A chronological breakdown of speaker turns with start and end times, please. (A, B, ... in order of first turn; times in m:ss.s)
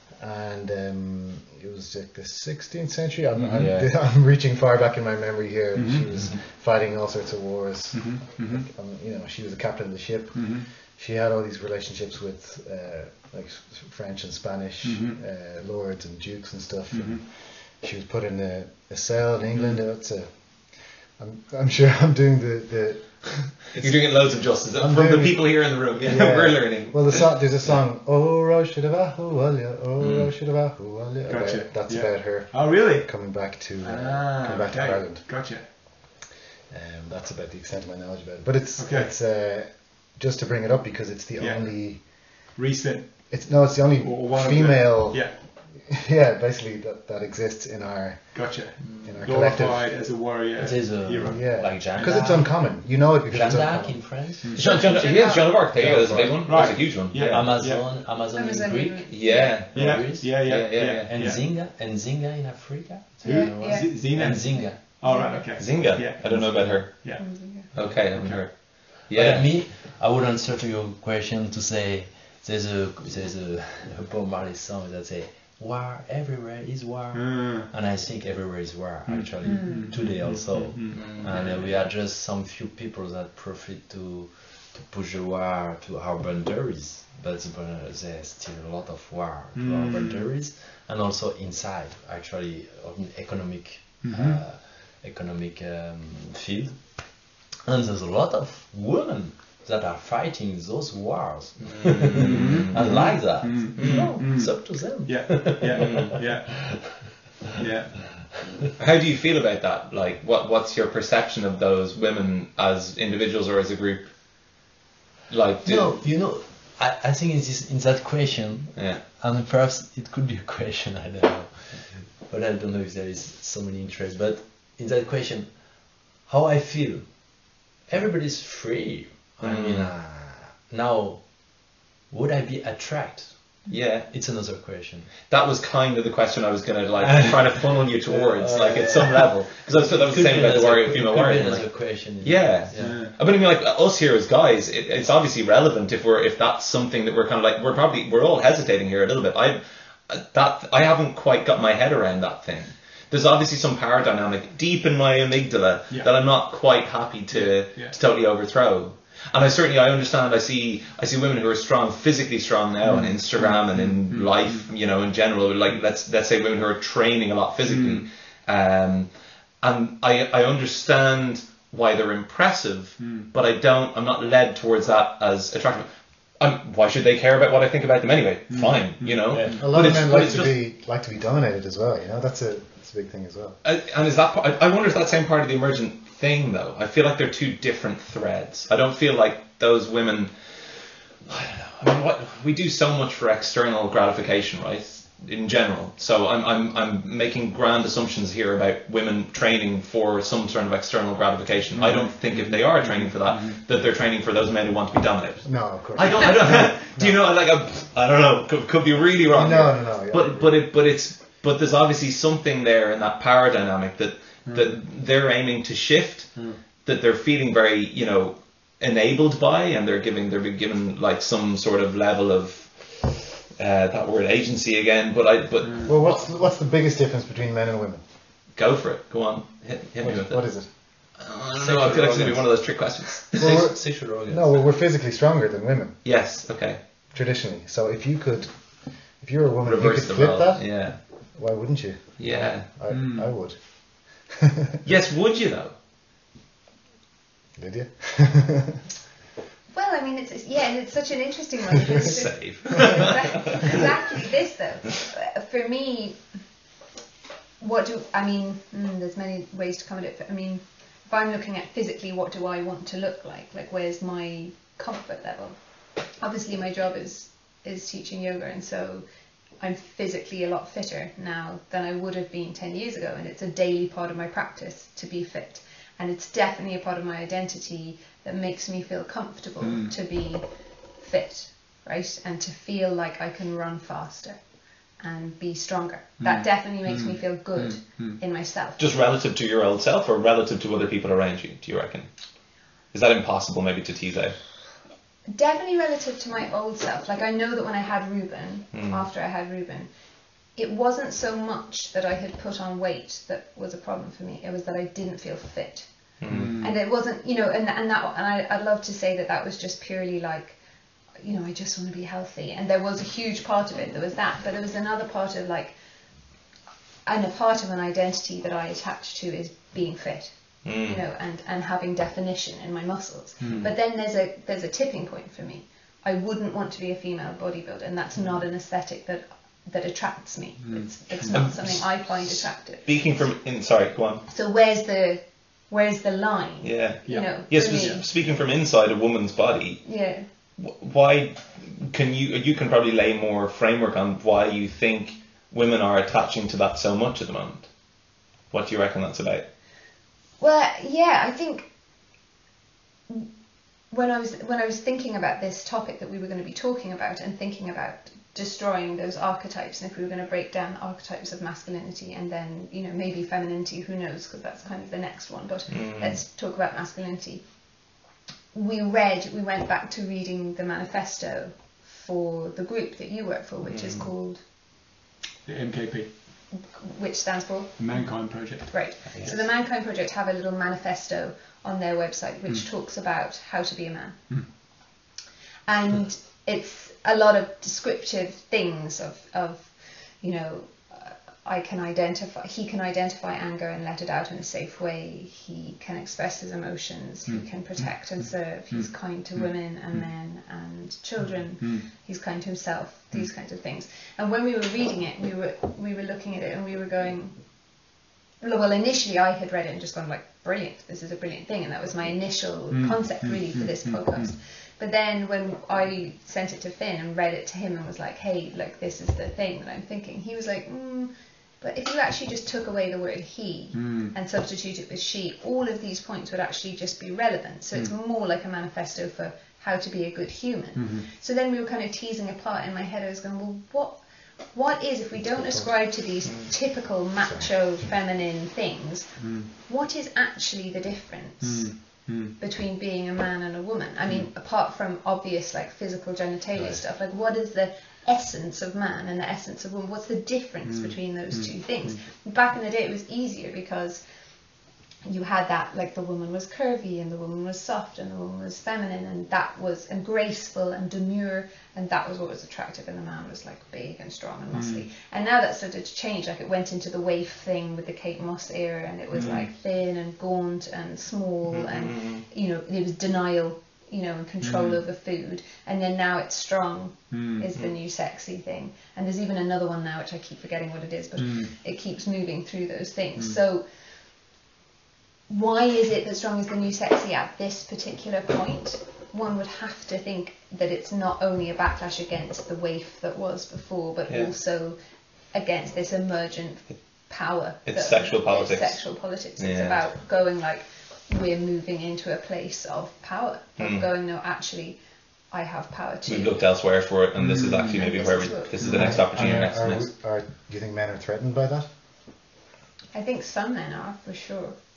0:00.1-0:35.7 A
0:03.4-0:03.7 B
0:03.6-0:03.9 C
0:05.8-0:06.1 B
0:07.9-0:08.7 B
0:10.4-0:10.7 B
0:14.8-0:15.2 B
0:16.9-0:17.2 B
0:23.8-0:27.7 C
0:30.0-0:30.3 C
0:31.3-0:35.7 B
0:36.7-0:42.5 A
0:38.8-0:39.1 B
0:41.4-0:43.3 B
0:43.3-0:50.1 A
0:44.0-0:45.4 B
0:48.3-0:52.4 B
0:48.8-0:49.1 C
0:50.6-1:05.4 D
0:51.2-0:54.4 A
0:54.4-0:54.7 B
0:54.5-0:57.6 C
0:54.6-0:55.6 E
0:56.4-0:57.9 B
0:58.3-0:59.7 E
0:59.1-1:01.1 C
0:59.7-1:01.4 B
1:03.2-1:08.4 B
1:03.2-1:04.0 E
1:05.0-1:05.5 E
1:05.4-1:09.6 C
1:06.2-1:06.9 D
1:07.2-1:07.7 E
1:07.7-1:47.6 D
1:17.1-1:17.7 B
1:19.1-1:21.8 B
1:19.4-1:20.0 E
1:20.9-1:21.6 C
1:29.6-1:30.3 B
1:34.0-1:34.4 B
1:41.6-1:44.4 C
1:42.2-1:46.5 B
1:45.7-1:46.2 C
1:47.6-1:48.1 B
1:48.1-1:48.7 D
1:48.8-1:54.1 C
1:55.3-1:56.0 C
1:55.6-2:15.1 D
1:58.7-1:59.0 C
2:09.4-2:09.9 C
2:13.7-2:14.7 C
2:15.2-3:00.6 C
2:17.0-2:23.1 D
2:22.8-2:23.2 B
2:37.3-2:38.0 B
2:42.8-2:44.7 B
2:47.6-2:48.1 B
2:53.0-2:53.3 B
2:58.5-2:59.6 B
2:59.3-2:59.7 D
2:59.6-3:03.6 A
3:03.6-3:46.3 C
3:21.7-3:23.6 B
3:25.4-3:27.2 A
3:29.3-3:30.6 A
3:34.5-3:34.8 B
3:45.6-3:45.9 B
3:45.8-3:48.0 A
3:48.5-3:53.6 C
3:50.0-3:50.7 A
3:51.6-3:54.7 D
3:53.4-3:56.0 A
3:56.0-3:56.8 C
3:57.1-4:04.6 A
3:59.6-4:01.0 C
4:02.2-4:02.7 C
4:02.9-4:03.3 B
4:04.8-4:05.8 C
4:07.6-4:08.8 A
4:09.7-4:16.2 E
4:12.1-4:13.2 C
4:17.6-4:25.6 E
4:26.2-4:29.0 E
4:29.6-4:48.9 E
4:39.6-4:39.9 B
4:46.2-4:48.2 B
4:48.8-4:52.1 C
4:52.9-4:54.4 C
4:55.3-4:59.9 E
4:58.7-4:59.1 C
5:00.6-5:10.6 E
5:06.2-5:06.6 C
5:06.3-5:06.8 B
5:11.2-5:15.8 E
5:17.0-5:33.4 E
5:20.6-5:21.0 C
5:23.4-5:23.7 B
5:30.6-5:31.6 B
5:31.3-5:34.3 C
5:34.3-5:38.1 E
5:36.6-5:39.9 C
5:37.1-5:38.4 B
5:39.8-5:40.3 E
5:40.6-5:49.5 C
5:50.4-5:51.7 E
5:53.9-6:07.7 E
6:05.7-6:06.2 C
6:08.5-6:14.4 E
6:13.6-6:14.1 C
6:15.4-6:16.1 B
6:16.5-6:24.6 E
6:17.8-6:19.5 B
6:25.7-6:47.8 E
6:37.3-6:40.1 B
6:41.2-6:41.9 B
6:48.4-7:34.0 E
6:52.7-6:54.3 B
7:03.7-7:04.2 B
7:10.8-7:11.1 B
7:15.2-7:15.7 A
7:16.2-7:16.5 C
7:17.2-7:17.5 A
7:19.2-7:19.5 B
7:21.4-7:22.4 B
7:26.6-7:26.8 A
7:30.6-7:32.0 B
7:35.0-8:03.7 E
7:44.5-7:44.9 B
7:49.1-7:49.5 B
7:51.5-7:52.2 C
7:54.4-7:54.8 B
7:57.1-7:57.5 B
8:01.2-8:01.5 B
8:05.3-8:14.8 E
8:15.3-8:24.8 E
8:17.7-8:19.8 C
8:23.6-8:23.9 C
8:25.3-8:26.4 E
8:26.1-8:29.9 C
8:27.2-8:27.8 B
8:27.6-8:28.6 E
8:28.6-8:29.0 B
8:28.7-8:31.7 A
8:32.9-8:34.6 E